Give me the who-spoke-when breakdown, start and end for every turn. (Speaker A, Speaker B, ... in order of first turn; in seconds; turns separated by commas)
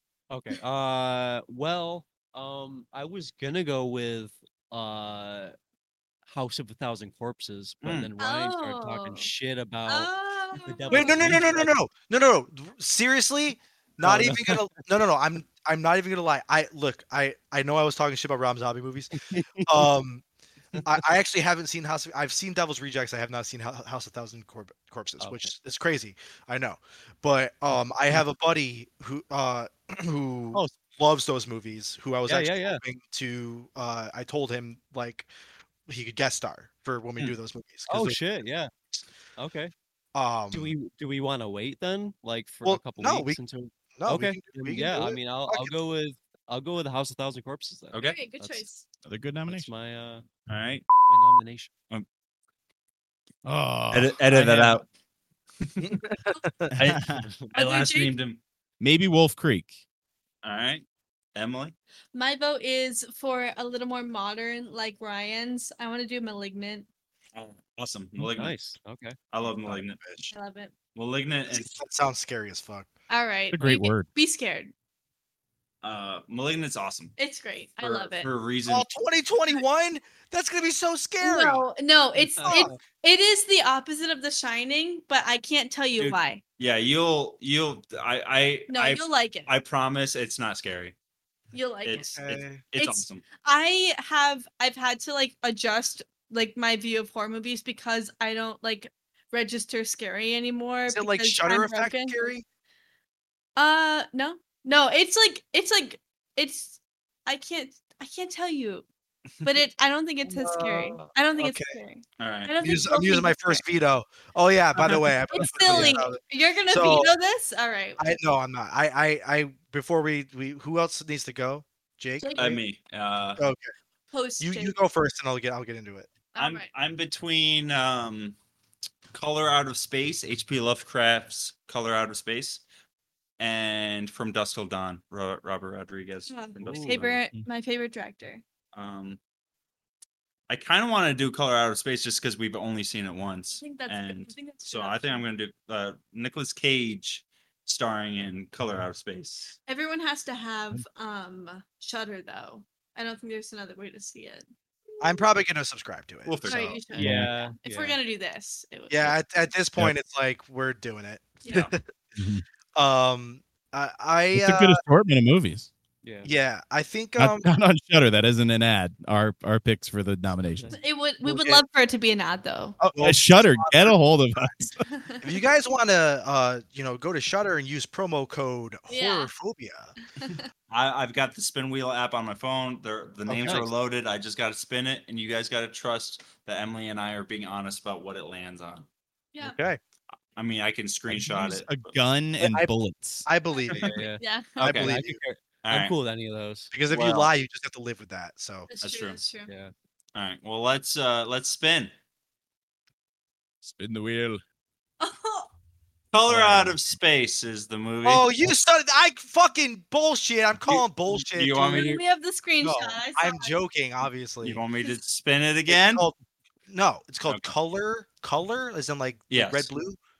Speaker A: 0.3-5.5, Speaker A: 6.2-11.7, Speaker B: 7.8-8.1, Speaker C: 8.2-9.3, Speaker C: 9.9-11.4, Speaker D: 10.9-19.1, Speaker A: 14.0-14.7, Speaker A: 19.1-19.9, Speaker D: 19.6-20.2, Speaker D: 20.8-35.3, Speaker A: 25.2-25.5, Speaker A: 32.3-32.8, Speaker D: 35.9-38.2, Speaker A: 37.9-38.7, Speaker A: 39.4-39.7, Speaker D: 40.1-40.8, Speaker A: 40.5-48.6, Speaker D: 42.6-43.4, Speaker D: 44.0-45.7, Speaker B: 47.9-48.2, Speaker C: 48.0-48.8, Speaker E: 49.0-49.7, Speaker A: 49.5-50.2, Speaker B: 50.5-50.9, Speaker A: 51.1-51.7, Speaker E: 53.4-54.7, Speaker B: 53.9-54.8, Speaker D: 55.8-56.8, Speaker B: 56.8-58.4, Speaker E: 56.8-57.2, Speaker A: 57.2-57.5, Speaker C: 57.5-58.1, Speaker E: 58.8-59.8, Speaker B: 60.4-61.7, Speaker C: 62.1-66.9, Speaker B: 67.3-68.6, Speaker A: 68.3-69.8, Speaker B: 69.3-70.0, Speaker D: 69.7-70.3, Speaker C: 70.3-70.7, Speaker B: 70.9-71.7, Speaker D: 71.5-72.9, Speaker C: 73.1-74.7, Speaker E: 73.5-74.1, Speaker B: 75.8-77.1, Speaker C: 77.2-78.3, Speaker B: 77.8-78.8, Speaker D: 78.7-81.6, Speaker C: 81.2-86.4, Speaker A: 82.3-82.6, Speaker D: 82.4-82.8, Speaker B: 86.0-90.9, Speaker C: 88.7-89.5, Speaker C: 91.5-92.0, Speaker B: 91.8-93.2, Speaker D: 91.9-92.6, Speaker C: 92.8-102.3, Speaker D: 100.9-102.4, Speaker C: 103.6-108.8, Speaker C: 109.4-113.6, Speaker D: 110.2-111.8, Speaker B: 112.2-112.5, Speaker D: 112.6-117.2, Speaker C: 114.9-118.1, Speaker D: 118.0-122.6, Speaker C: 122.2-122.5, Speaker B: 122.4-123.4, Speaker D: 123.4-123.7, Speaker C: 124.1-124.8, Speaker D: 124.4-126.1, Speaker C: 126.3-126.7, Speaker B: 126.4-128.3, Speaker B: 129.1-132.6, Speaker B: 133.4-137.2, Speaker C: 136.3-138.4, Speaker A: 136.6-137.2, Speaker B: 138.7-139.2, Speaker B: 140.5-149.5, Speaker C: 143.5-145.2, Speaker C: 149.7-154.5, Speaker C: 155.0-155.2, Speaker D: 155.0-156.8, Speaker B: 156.2-156.8, Speaker C: 156.4-159.2, Speaker A: 156.9-158.0, Speaker E: 157.0-157.3, Speaker D: 158.9-161.8, Speaker E: 162.2-162.4, Speaker D: 162.7-164.8, Speaker E: 164.3-165.7, Speaker A: 166.0-166.3, Speaker D: 166.2-167.5, Speaker E: 167.2-170.7, Speaker A: 170.5-170.8, Speaker C: 170.7-172.8, Speaker D: 171.2-171.6, Speaker E: 172.8-174.8, Speaker D: 172.9-174.5, Speaker C: 174.9-175.2, Speaker D: 175.2-179.9, Speaker C: 178.9-179.3, Speaker C: 180.0-180.5, Speaker B: 180.7-188.8, Speaker D: 183.3-183.7, Speaker C: 189.3-189.6, Speaker D: 189.4-189.8, Speaker B: 190.3-191.9, Speaker E: 191.1-193.3, Speaker D: 192.4-192.7, Speaker D: 193.2-194.0, Speaker A: 193.7-196.7, Speaker C: 194.2-194.6, Speaker D: 194.6-195.2, Speaker B: 194.6-194.9, Speaker B: 195.6-195.9, Speaker D: 196.7-198.7, Speaker B: 196.9-197.3, Speaker C: 198.7-199.5, Speaker B: 198.8-199.2, Speaker A: 199.5-199.7, Speaker B: 200.1-201.9, Speaker E: 203.6-204.4, Speaker C: 205.0-205.5, Speaker B: 206.1-208.5, Speaker E: 206.3-206.6, Speaker D: 208.0-211.9, Speaker B: 210.7-212.0, Speaker C: 211.5-213.6, Speaker D: 212.6-214.6, Speaker B: 214.4-216.1, Speaker D: 215.7-216.2, Speaker D: 216.7-220.0, Speaker B: 217.3-217.5, Speaker B: 219.3-219.7